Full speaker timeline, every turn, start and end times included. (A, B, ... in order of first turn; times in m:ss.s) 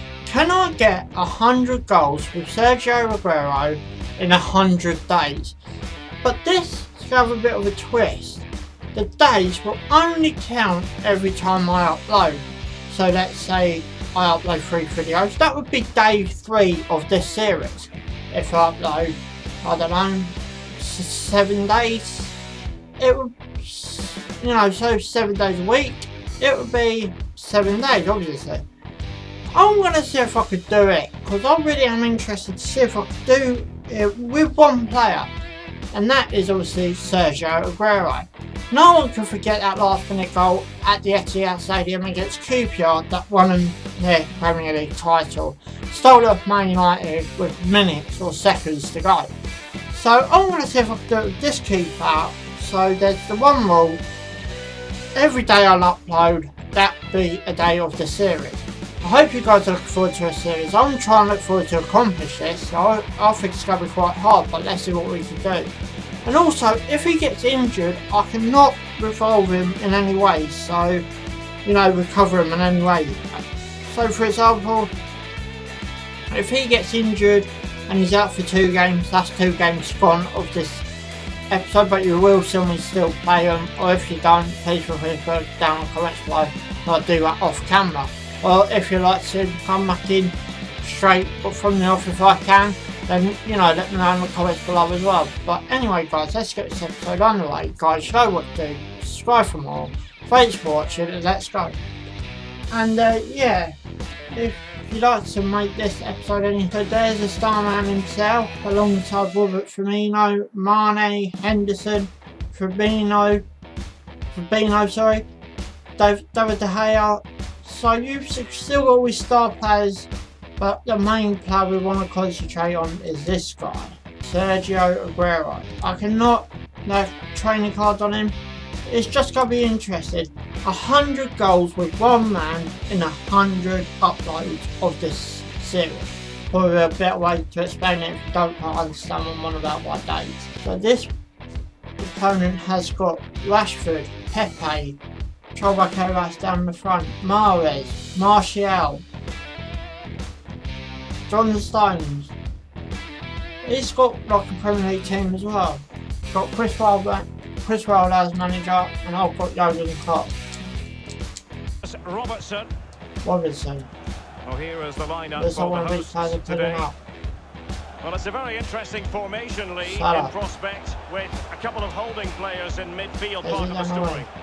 0:00.2-0:05.6 A
0:06.2-0:22.4 A
0:23.0-0:28.7 A
0:29.5-0:35.3 A
0:35.9-0:49.3 A
0:49.9-0:54.0 A
0:55.2-1:05.7 A
1:06.2-1:11.0 A
1:11.6-1:14.9 A
1:16.3-1:20.9 A
1:21.5-1:41.8 A
1:42.7-1:43.8 A
1:44.3-1:53.4 A
1:54.3-1:55.2 A
1:56.0-2:21.1 A
2:22.0-2:25.0 A
2:25.6-2:29.0 A
2:31.3-2:32.3 A
2:33.6-2:40.3 A
2:41.8-2:42.7 B
2:43.2-2:43.9 A
2:44.5-2:46.9 B
2:45.4-2:47.0 A
2:48.0-2:54.3 B
2:49.8-2:50.3 A
2:53.4-2:54.3 A